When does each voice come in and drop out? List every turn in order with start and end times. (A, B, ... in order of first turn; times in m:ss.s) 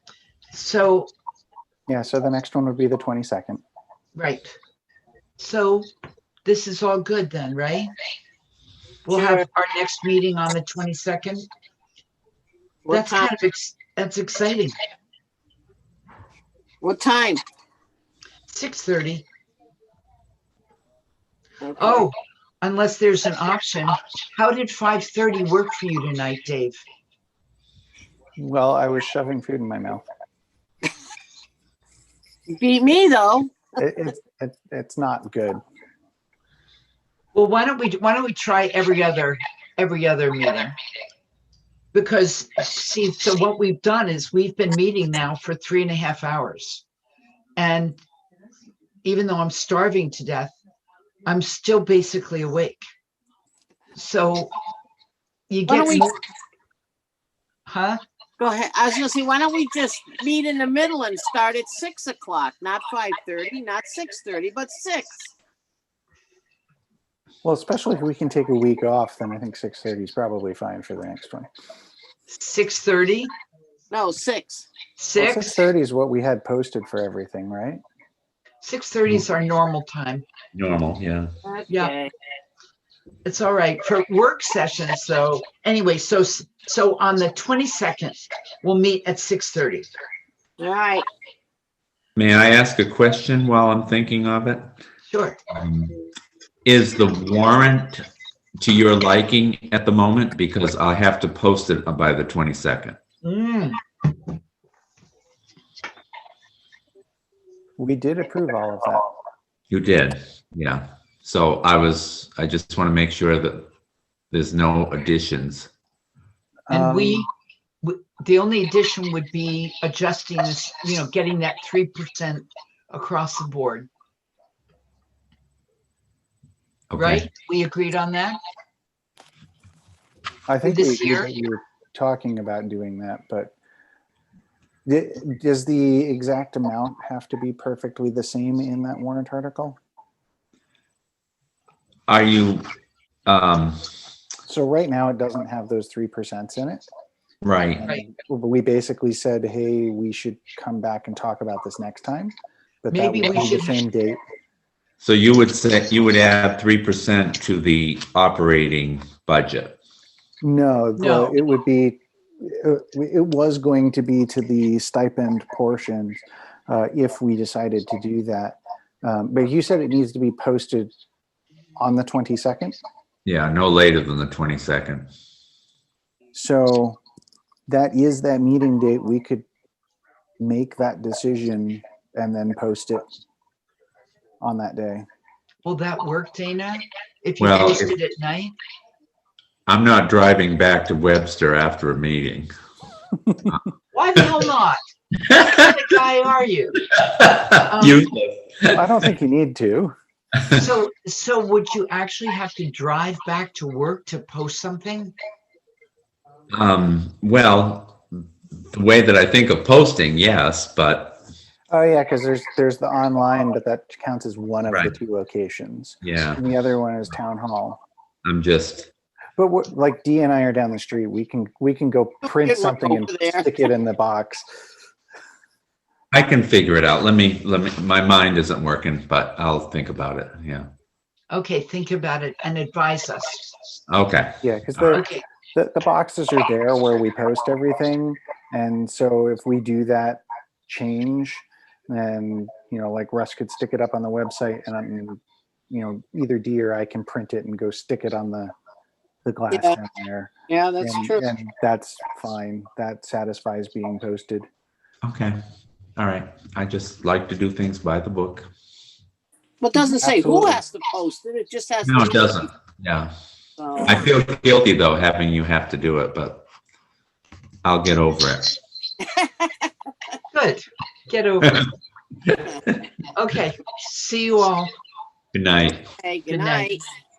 0:00.5-0:01.1 A
0:01.9-0:03.6 B
0:04.1-0:04.5 A
0:05.4-0:05.9 A
0:06.4-0:07.9 A
0:09.0-0:11.5 A
0:09.1-0:09.4 C
0:12.8-0:13.3 C
0:12.9-0:14.8 A
0:16.8-0:17.4 C
0:18.5-0:19.2 A
0:21.6-0:22.0 C
0:21.8-0:26.8 A
0:28.4-0:30.0 B
0:32.5-0:33.7 C
0:33.8-0:35.6 B
0:37.3-0:40.8 A
0:41.9-0:46.8 A
0:47.6-0:48.0 A
0:49.0-0:50.5 A
0:51.2-0:52.8 A
0:53.9-0:54.5 A
0:55.5-0:56.1 A
0:55.7-0:56.1 C
0:57.7-0:58.0 A
0:58.4-1:05.3 C
1:07.4-1:11.5 B
1:12.3-1:13.3 A
1:13.9-1:14.7 C
1:15.0-1:15.6 A
1:15.2-1:17.8 B
1:18.6-1:20.2 A
1:20.5-1:21.3 D
1:21.4-1:22.1 C
1:21.7-1:21.9 A
1:23.2-1:29.9 A
1:30.6-1:31.1 C
1:32.2-1:34.7 D
1:35.1-1:35.4 A
1:35.5-1:35.9 D
1:36.6-1:38.0 D
1:38.6-1:43.0 D
1:43.2-1:43.8 A
1:47.8-1:49.1 B
1:49.7-1:53.7 D
1:54.3-1:55.7 D
1:56.7-1:57.3 B
1:56.7-1:57.3 A
1:57.8-2:03.9 A
2:06.9-2:07.3 D
2:07.0-2:08.4 A
2:10.5-2:13.5 B
2:10.6-2:11.3 A
2:14.8-2:19.8 B
2:22.1-2:22.7 D
2:23.2-2:23.8 D
2:24.5-2:26.8 B
2:27.4-2:27.8 D
2:27.8-2:34.2 B
2:32.9-2:33.8 A
2:35.0-2:39.8 D
2:40.4-2:50.9 B
2:41.0-2:41.3 A
2:51.8-2:52.8 B
2:53.2-2:55.1 D
2:56.3-2:57.0 B
2:57.7-2:59.4 B
3:00.4-3:03.0 B
3:04.4-3:05.0 B
3:05.6-3:08.5 A
3:07.4-3:07.9 D
3:09.7-3:12.5 D
3:13.9-3:14.8 A
3:15.4-3:16.8 A
3:17.0-3:19.0 D
3:17.7-3:18.0 A
3:18.7-3:19.9 B
3:20.5-3:25.1 A
3:26.5-3:28.0 D
3:28.7-3:31.2 D
3:31.7-3:37.8 B
3:34.7-3:35.0 D
3:36.0-3:36.4 D
3:38.2-3:38.9 D
3:39.4-3:44.4 B
3:42.2-3:43.5 C
3:46.1-3:50.7 D
3:51.3-3:53.4 A
3:53.9-3:54.9 D
3:54.4-4:05.2 B
3:54.9-3:55.2 A
4:05.7-4:08.5 B
4:09.2-4:14.5 B
4:09.5-4:09.8 C
4:10.5-4:11.2 C
4:15.0-4:15.4 D
4:16.0-4:18.5 D
4:19.6-4:22.4 C
4:19.8-4:20.7 B
4:21.8-4:23.1 D
4:23.6-4:24.0 C
4:23.8-4:26.4 D
4:27.6-4:28.6 D
4:29.0-4:29.7 C
4:30.3-4:31.6 A
4:32.2-4:32.8 D
4:33.1-4:34.7 A
4:35.3-4:35.9 D
4:36.0-4:36.8 C
4:36.3-4:36.8 A